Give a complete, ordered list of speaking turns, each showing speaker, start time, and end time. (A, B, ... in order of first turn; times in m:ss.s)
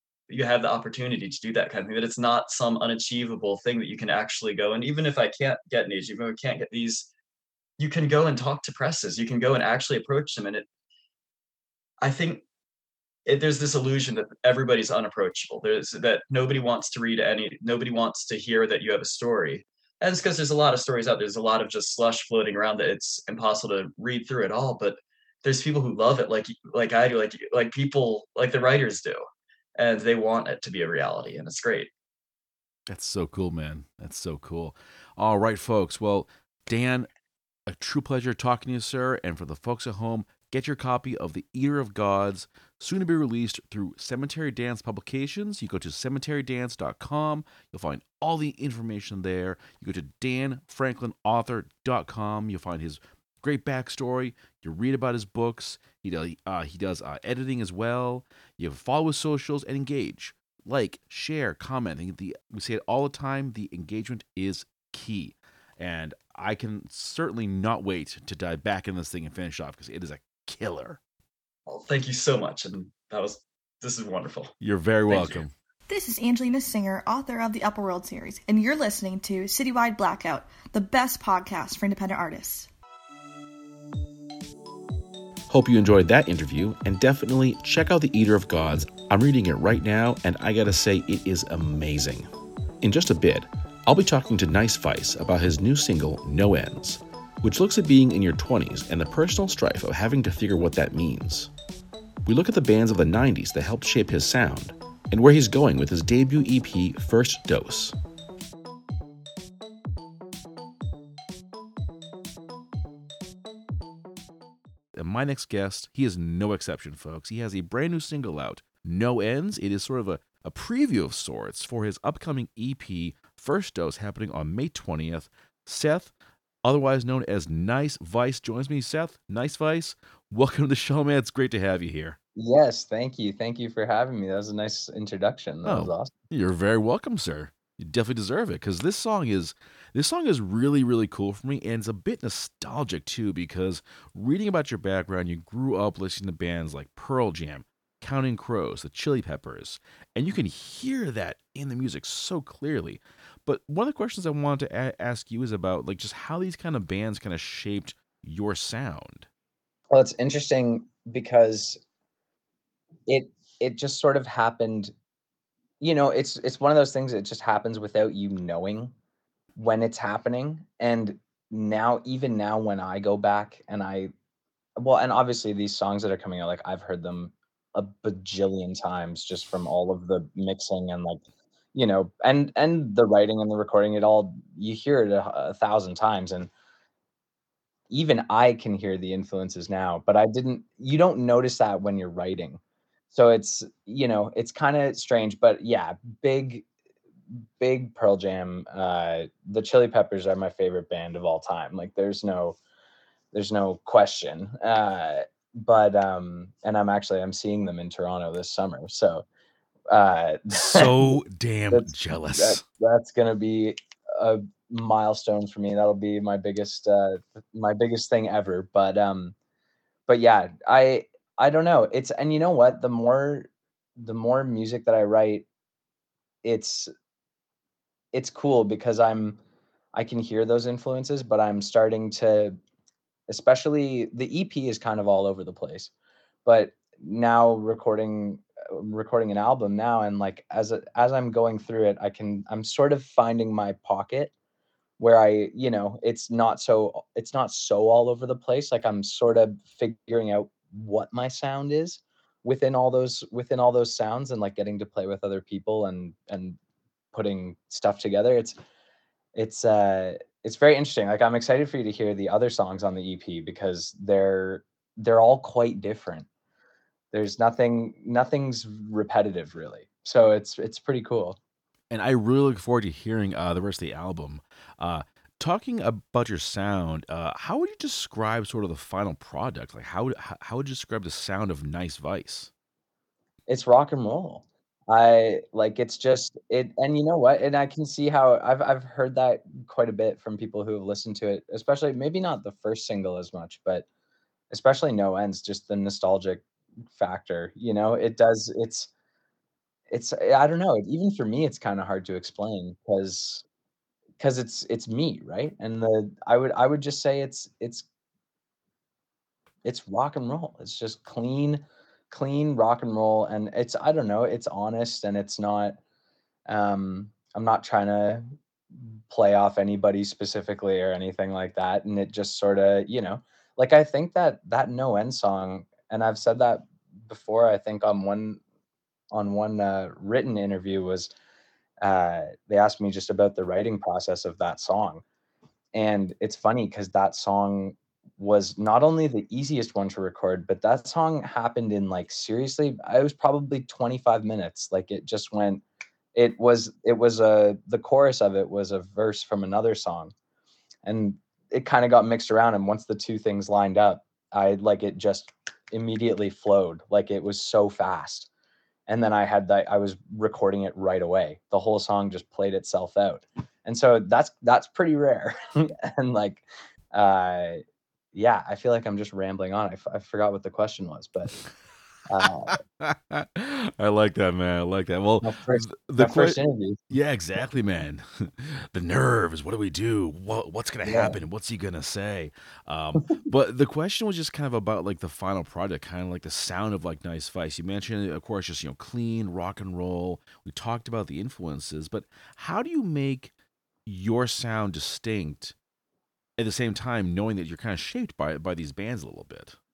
0:00.3-0:07.1 A
0:07.8-0:10.7 A
0:12.0-0:12.4 A
0:13.3-0:29.2 A
0:29.8-0:31.9 A
0:32.9-0:37.1 B
0:37.7-1:11.0 B
1:11.7-1:14.5 A
1:14.6-1:15.5 B
1:15.1-1:15.4 A
1:15.9-1:22.7 C
1:25.5-1:32.3 D
1:32.8-1:41.5 D
1:42.3-1:48.0 D
1:54.9-2:06.1 B
2:06.6-2:12.2 B
2:12.4-2:16.1 E
2:15.6-2:39.3 B
2:39.9-2:41.8 E
2:43.1-2:44.9 E
2:45.8-2:48.9 E
2:49.6-2:54.1 E
2:54.8-3:01.2 E
3:01.7-3:06.5 E
3:07.9-3:12.6 E
3:13.1-3:16.6 E
3:17.3-3:22.6 E
3:23.3-3:29.2 E
3:29.9-3:31.2 E
3:30.7-3:32.6 B
3:31.7-3:39.4 E
3:40.1-3:45.5 E
3:46.4-3:46.9 E
3:48.1-3:49.4 E
3:49.9-3:52.6 E
3:53.3-3:55.9 E
3:56.4-4:04.3 E
4:05.0-4:16.6 E
4:17.1-4:18.6 E
4:19.4-4:26.3 E
4:27.1-4:31.4 E
4:31.9-4:42.5 B
4:43.5-4:53.8 E
4:54.5-4:58.9 E
4:59.9-5:03.4 E
5:04.2-5:07.8 E
5:09.6-5:15.8 E
5:16.5-5:28.4 E
5:29.1-5:31.1 E
5:31.8-5:35.0 E
5:35.7-5:45.6 E
5:46.2-5:50.1 E
5:50.8-5:58.3 E
5:58.9-6:11.4 E
6:12.1-6:12.6 E
6:12.2-6:16.4 B
6:15.2-6:16.8 E
6:16.9-6:33.3 B
6:20.9-6:21.2 E
6:33.9-6:35.6 B
6:36.4-6:39.6 B